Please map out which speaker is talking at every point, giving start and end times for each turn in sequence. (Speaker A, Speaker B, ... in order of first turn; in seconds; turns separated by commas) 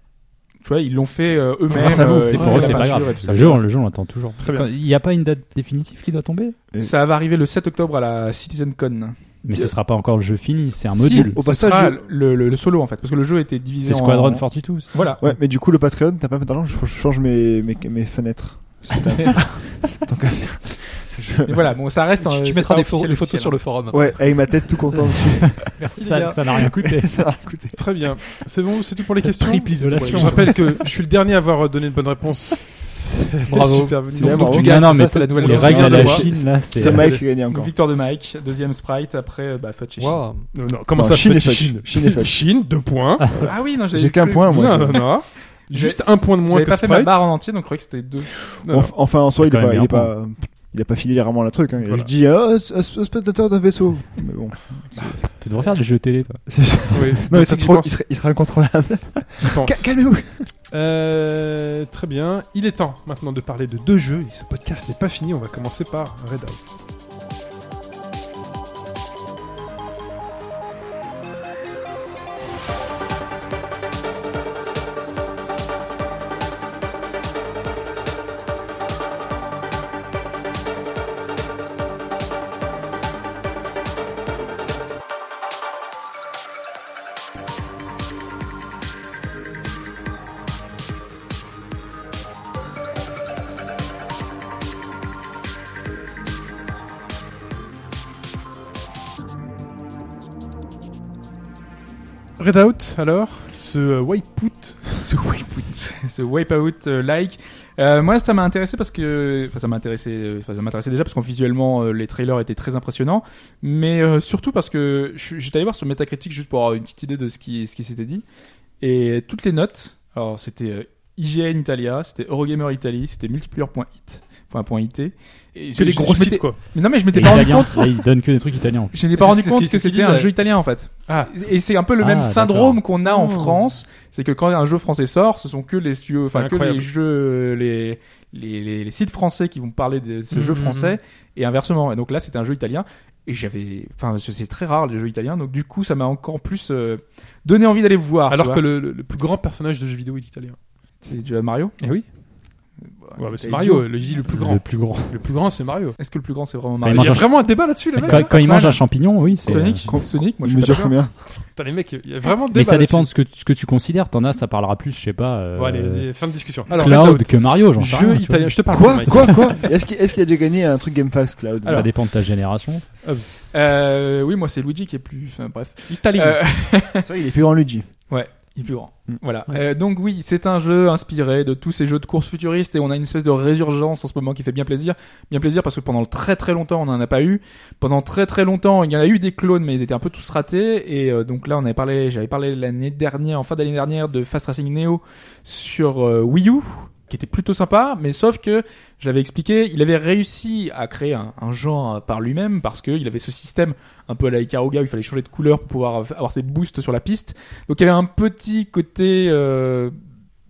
Speaker A: 0.6-3.6, Speaker B: 1.7-3.0, Speaker C: 1.7-6.6, Speaker D: 2.4-2.7, Speaker E: 4.4-4.7, Speaker A: 6.8-9.2, Speaker C: 9.4-11.4, Speaker A: 10.9-15.2, Speaker B: 11.2-12.0, Speaker C: 13.8-15.1, Speaker B: 15.2-21.7, Speaker A: 21.5-23.6, Speaker D: 22.2-26.5, Speaker B: 23.9-25.6, Speaker C: 25.4-27.2, Speaker B: 26.5-28.2, Speaker E: 27.7-37.2, Speaker C: 29.2-30.9, Speaker D: 29.7-30.4, Speaker D: 33.5-36.4, Speaker B: 34.1-34.7, Speaker C: 34.4-37.2, Speaker B: 35.8-37.7, Speaker A: 37.1-40.3, Speaker D: 40.0-40.5, Speaker E: 40.5-43.8, Speaker B: 40.9-42.4, Speaker A: 43.4-48.5, Speaker B: 43.9-45.2, Speaker E: 44.5-47.2, Speaker E: 48.6-48.9, Speaker B: 48.6-55.4, Speaker C: 49.3-50.1, Speaker E: 51.8-52.1, Speaker C: 55.3-56.5, Speaker B: 56.5-60.5, Speaker E: 56.9-57.9, Speaker E: 59.4-60.0, Speaker E: 60.7-66.7, Speaker E: 102.4-105.0, Speaker A: 104.9-118.2, Speaker A: 118.8-128.0, Speaker E: 125.8-126.6, Speaker C: 127.1-129.0, Speaker A: 128.9-148.6, Speaker D: 129.2-130.3, Speaker C: 132.0-132.8, Speaker D: 133.1-133.6, Speaker E: 136.2-136.9, Speaker E: 140.3-140.9, Speaker E: 148.3-150.6, Speaker A: 151.0-151.8, Speaker E: 151.8-152.1, Speaker A: 153.0-153.9, Speaker E: 153.2-156.0, Speaker C: 154.2-155.3, Speaker A: 156.0-161.0, Speaker C: 156.8-159.9, Speaker E: 156.9-158.4, Speaker B: 159.4-161.1, Speaker E: 161.3-163.1, Speaker C: 162.5-169.4, Speaker E: 165.5-169.7, Speaker A: 166.7-167.2, Speaker B: 168.7-171.9, Speaker E: 171.6-172.3, Speaker C: 171.6-172.9, Speaker E: 173.0-173.3, Speaker A: 173.5-177.1, Speaker E: 175.9-176.4, Speaker B: 176.9-177.9, Speaker A: 178.1-209.9